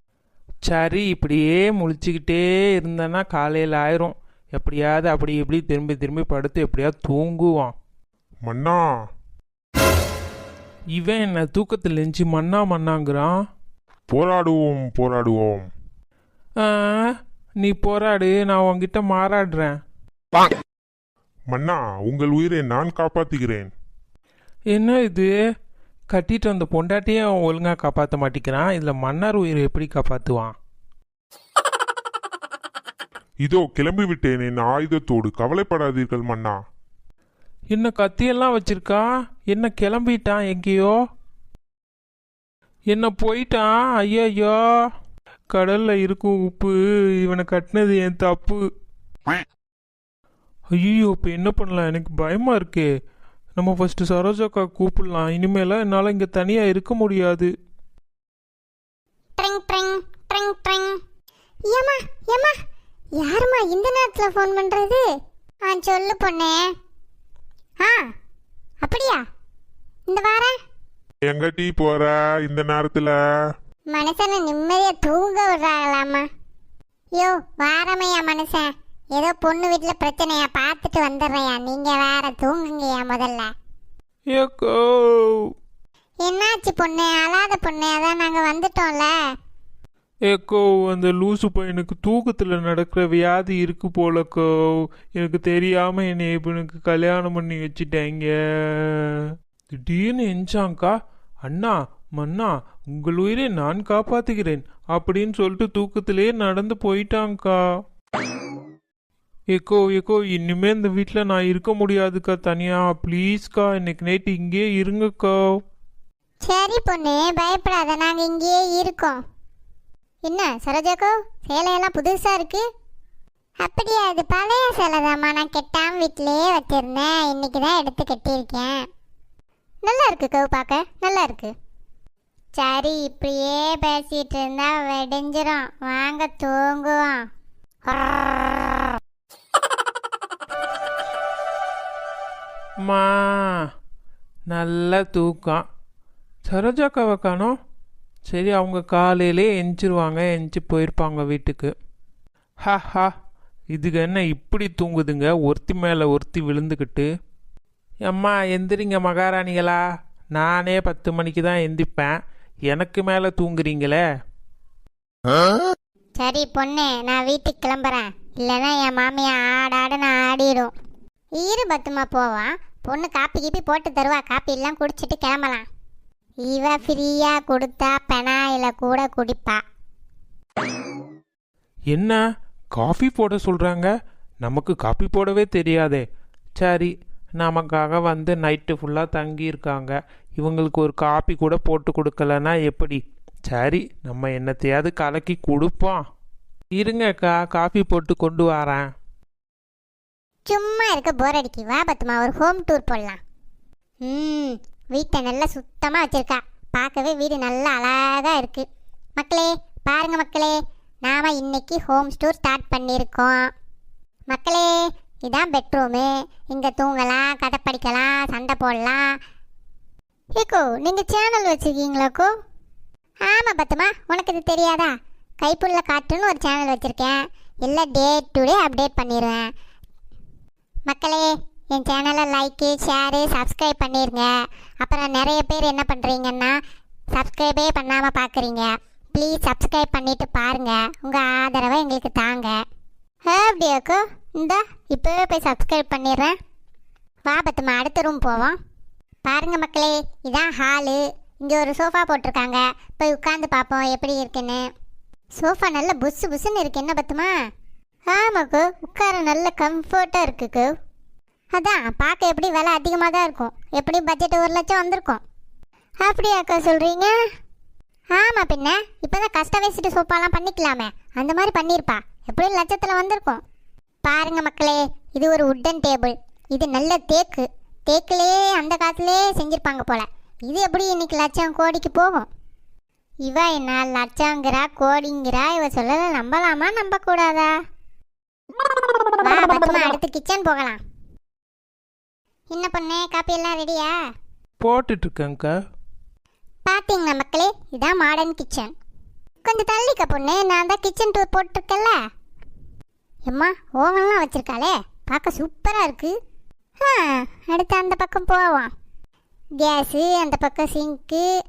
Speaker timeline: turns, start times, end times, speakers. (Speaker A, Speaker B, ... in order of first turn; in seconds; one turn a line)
Speaker A: 0.6-7.7
Speaker B: 8.4-8.9
Speaker A: 11.0-13.3
Speaker B: 14.1-15.7
Speaker A: 16.6-19.8
Speaker B: 21.5-23.7
Speaker A: 24.7-25.3
Speaker A: 26.1-30.6
Speaker B: 33.4-36.6
Speaker A: 37.7-41.0
Speaker A: 42.9-44.6
Speaker A: 45.5-48.6
Speaker A: 50.8-52.9
Speaker A: 53.6-57.5
Speaker C: 59.4-61.0
Speaker C: 61.7-62.5
Speaker C: 63.2-65.0
Speaker C: 65.7-66.7
Speaker C: 67.8-68.1
Speaker C: 68.8-69.2
Speaker C: 70.1-70.5
Speaker B: 71.2-73.2
Speaker C: 73.9-76.3
Speaker C: 77.2-83.5
Speaker A: 84.3-85.5
Speaker C: 86.2-89.1
Speaker A: 90.3-94.5
Speaker A: 95.2-107.6
Speaker A: 109.5-115.4
Speaker C: 116.4-119.2
Speaker C: 120.3-122.6
Speaker C: 123.6-128.9
Speaker C: 129.8-131.5
Speaker C: 132.6-137.2
Speaker C: 137.9-138.7
Speaker A: 142.8-143.6
Speaker A: 144.5-145.6
Speaker A: 146.5-147.6
Speaker A: 148.3-151.7
Speaker A: 152.6-153.1
Speaker A: 153.7-157.1
Speaker A: 158.1-159.8
Speaker A: 160.3-162.2
Speaker A: 162.7-164.0
Speaker C: 166.2-170.7
Speaker C: 171.4-175.7
Speaker C: 176.4-179.6
Speaker A: 181.9-182.2
Speaker A: 182.7-183.9
Speaker A: 184.4-186.0
Speaker A: 186.6-196.0
Speaker A: 196.8-198.9
Speaker C: 200.5-203.2
Speaker C: 204.1-208.6
Speaker C: 209.2-213.5
Speaker C: 214.3-214.7
Speaker C: 215.3-219.1
Speaker C: 220.4-222.3
Speaker C: 223.3-224.9
Speaker C: 225.4-229.5
Speaker C: 230.9-236.6
Speaker C: 237.1-242.5
Speaker C: 243.3-246.4
Speaker C: 247.3-248.6
Speaker C: 249.2-254.6
Speaker C: 255.4-257.3
Speaker C: 258.1-260.7
Speaker C: 261.5-265.2
Speaker C: 266.0-267.1
Speaker C: 268.1-273.4
Speaker C: 274.1-282.3
Speaker C: 283.3-287.5
Speaker C: 289.2-290.8
Speaker C: 292.5-294.0
Speaker A: 294.6-295.5
Speaker C: 296.7-298.7
Speaker C: 299.4-302.0
Speaker C: 303.3-306.1
Speaker C: 306.8-308.7
Speaker C: 309.6-311.3